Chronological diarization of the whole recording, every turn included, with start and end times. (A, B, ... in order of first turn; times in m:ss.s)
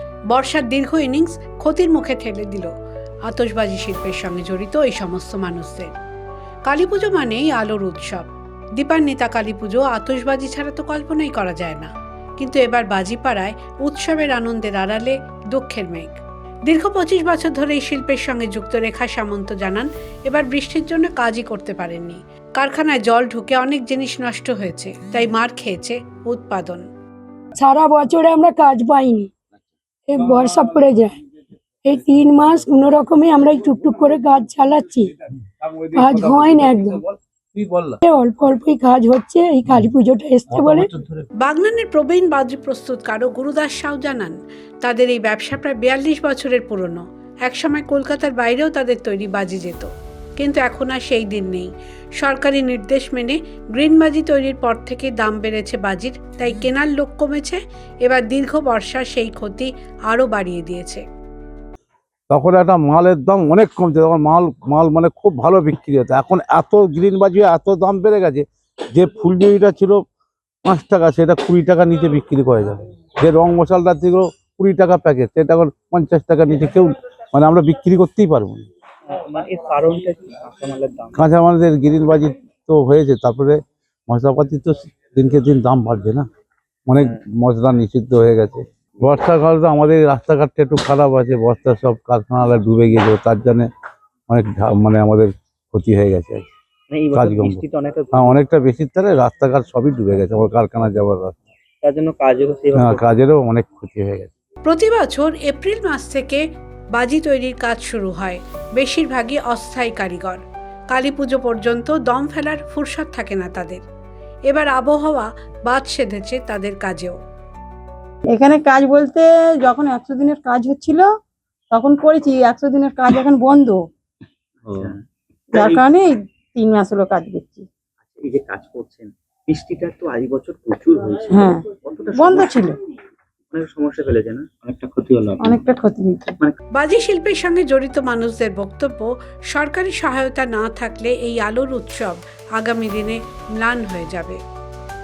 0:00.3-0:02.7 A
0:03.3-0:05.9 A
0:06.7-0:26.9 A
0:27.6-0:29.3 B
0:30.1-0:31.2 B
0:30.2-0:30.8 C
0:31.8-0:35.1 B
0:33.4-0:34.0 C
0:35.6-0:38.0 C
0:36.0-0:37.0 B
0:38.0-0:40.9 B
0:40.5-0:41.3 C
0:41.4-1:01.0 A
1:02.3-1:10.0 C
1:10.6-1:18.7 C
1:19.1-1:21.3 D
1:21.2-1:26.3 C
1:26.9-1:33.7 C
1:34.3-1:36.5 C
1:36.9-1:38.4 D
1:37.1-1:41.4 C
1:41.8-1:43.1 D
1:42.7-1:44.3 C
1:44.7-1:53.8 A
1:54.5-1:57.2 A
1:58.3-2:01.1 E
2:01.7-2:03.8 E
2:04.7-2:05.0 D
2:05.5-2:05.8 D
2:05.5-2:07.7 E
2:08.0-2:12.7 D
2:11.3-2:12.8 E
2:13.5-2:15.6 D
2:15.4-2:16.4 E
2:16.7-2:24.4 A